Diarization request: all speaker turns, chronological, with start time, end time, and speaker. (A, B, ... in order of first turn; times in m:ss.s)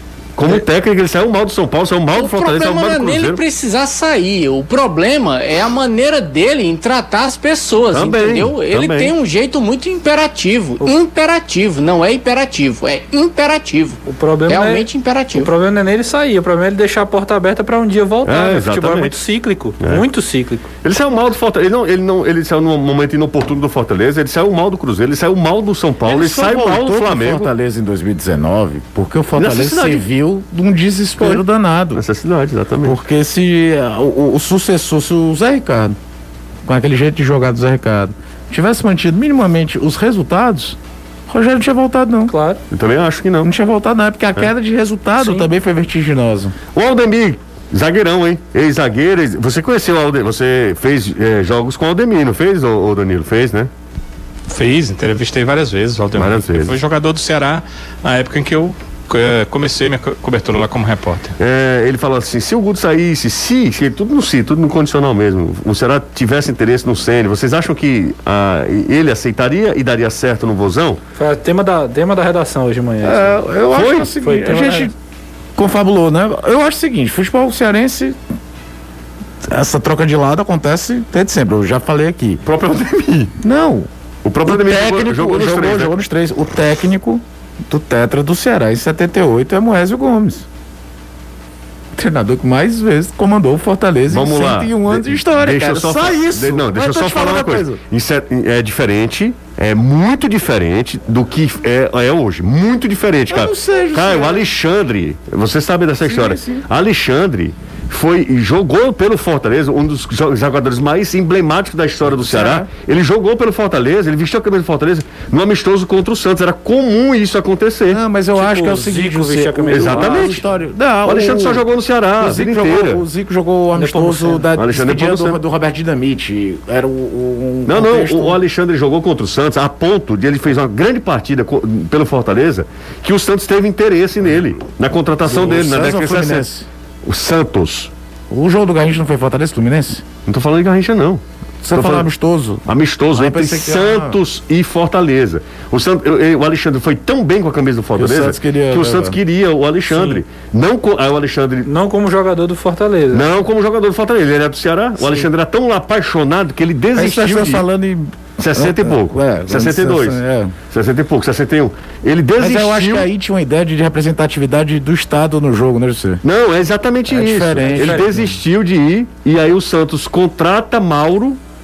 0:00.4-0:03.4 A
0:02.1-0:15.5 B
0:07.9-0:09.1 A
0:14.0-0:20.7 C
0:18.2-0:19.2 A
0:19.8-0:20.1 A
0:20.8-0:27.5 A
0:26.0-0:32.0 D
0:29.4-0:30.0 A
0:31.9-0:33.0 A
0:32.8-0:36.0 D
0:36.6-0:40.8 D
0:41.3-0:42.3 D
0:42.3-0:42.6 C
0:42.7-0:43.5 A
0:43.4-0:46.6 D
0:45.2-0:45.5 C
0:46.7-0:53.7 A
0:54.5-1:01.4 E
0:56.2-0:56.8 A
1:01.4-1:11.0 A
1:11.2-1:13.4 C
1:13.0-1:14.9 D
1:13.7-1:14.1 A
1:14.2-1:14.9 C
1:15.6-1:18.2 D
1:19.4-1:22.4 D
1:22.4-1:23.3 A
1:23.4-1:23.9 D
1:24.2-1:26.0 A
1:24.4-1:30.5 D
1:32.0-1:37.8 D
1:34.1-1:58.0 A
1:43.3-1:44.5 D
1:46.0-1:46.7 D
1:52.1-1:52.7 D
1:57.9-2:01.6 D
1:58.3-2:00.4 C
1:59.7-2:00.4 A
2:01.0-2:03.0 A
2:02.2-2:08.4 D
2:03.8-2:04.4 C
2:04.6-2:05.4 A
2:07.7-2:16.5 A
2:15.2-2:16.7 D
2:17.0-2:17.9 A
2:18.3-2:20.0 D
2:20.3-2:21.2 A
2:21.6-2:24.2 D
2:21.7-2:22.1 A
2:22.6-2:31.7 A
2:28.0-2:29.2 D
2:29.9-2:30.2 C
2:31.6-2:33.3 C
2:33.1-2:37.6 A
2:37.0-2:40.5 D
2:38.4-2:43.1 A
2:42.4-2:46.2 D
2:46.2-2:51.4 A
2:47.1-2:48.4 D
2:47.6-2:48.1 C